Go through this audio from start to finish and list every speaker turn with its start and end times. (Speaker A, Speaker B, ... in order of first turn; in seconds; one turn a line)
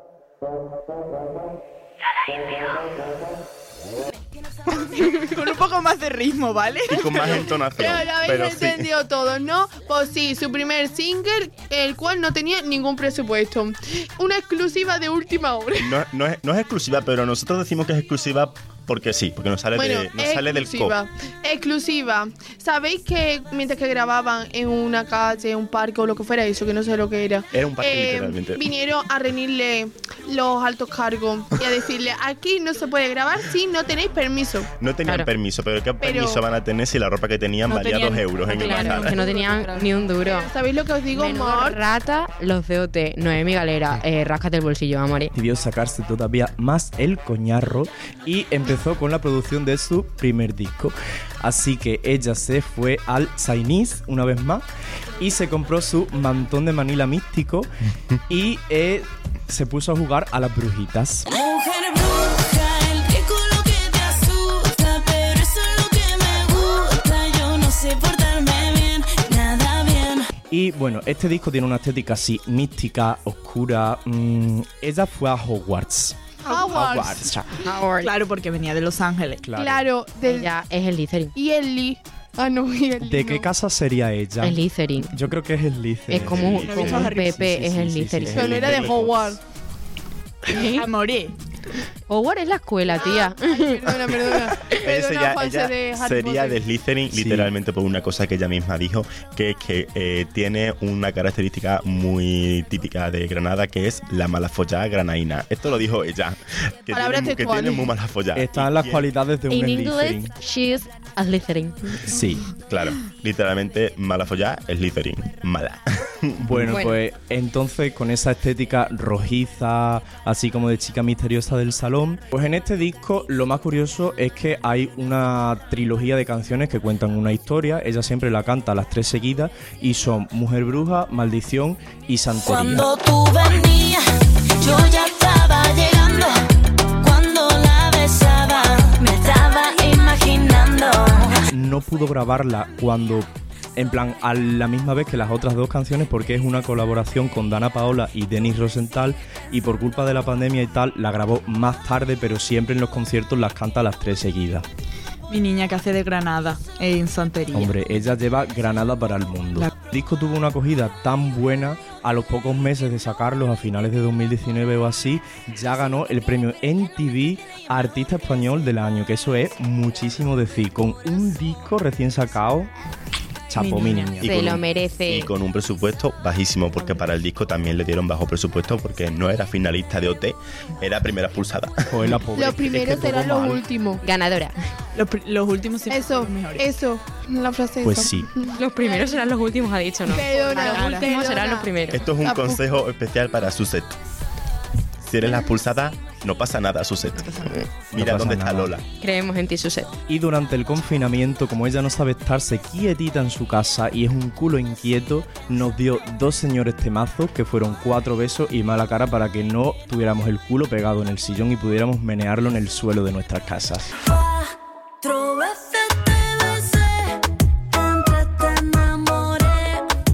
Speaker A: 4.7-7.4
Speaker B: 6.9-8.9
Speaker C: 7.8-16.0
Speaker B: 15.8-21.0
Speaker C: 19.8-34.7
Speaker B: 27.5-28.6
Speaker B: 34.8-39.2
Speaker C: 36.0-36.5
Speaker A: 37.7-39.4
Speaker D: 38.5-40.5
Speaker C: 38.5-41.8
Speaker D: 41.1-45.3
Speaker E: 45.4-54.6
Speaker E: 55.2-57.7
Speaker E: 58.3-61.3
Speaker F: 61.3-70.3
Speaker E: 70.5-77.6
Speaker C: 76.5-77.3
Speaker D: 77.6-78.1
Speaker A: 78.0-79.5
Speaker E: 79.4-79.8
Speaker C: 79.6-80.5
Speaker D: 80.3-81.3
Speaker C: 81.3-83.5
Speaker E: 83.0-84.6
Speaker D: 84.4-85.2
Speaker E: 85.1-89.4
Speaker D: 86.1-88.7
Speaker B: 86.2-86.9
Speaker A: 86.6-87.4
Speaker C: 88.3-89.4
Speaker D: 90.5-90.9
Speaker A: 90.5-91.3
Speaker D: 92.1-94.0
Speaker C: 93.0-96.6
Speaker B: 94.7-109.1
Speaker E: 97.1-97.5
Speaker C: 106.9-107.9
Speaker E: 108.3-110.3
Speaker D: 109.5-112.2
Speaker E: 112.0-112.5
Speaker B: 112.6-116.8
Speaker E: 116.4-132.9
Speaker D: 116.7-117.0
Speaker F: 132.4-134.1
Speaker F: 134.6-136.4
Speaker F: 137.0-141.5
Speaker E: 141.5-154.7
Speaker A: 155.3-157.8
Speaker E: 157.5-172.7
Speaker E: 173.5-174.3
Speaker A: 173.6-174.2
Speaker D: 174.2-175.3
Speaker B: 174.2-182.1
Speaker E: 181.9-183.6
Speaker C: 182.3-184.0
Speaker D: 184.0-184.6
Speaker A: 184.9-186.7
Speaker C: 185.9-189.2
Speaker E: 187.8-188.3
Speaker D: 188.5-192.0
Speaker C: 190.1-192.7
Speaker A: 190.3-191.4
Speaker B: 191.9-194.0
Speaker B: 195.0-198.8
Speaker E: 197.9-198.7
Speaker D: 199.0-199.9
Speaker E: 200.1-213.9
Speaker F: 214.0-217.2
Speaker F: 217.7-219.8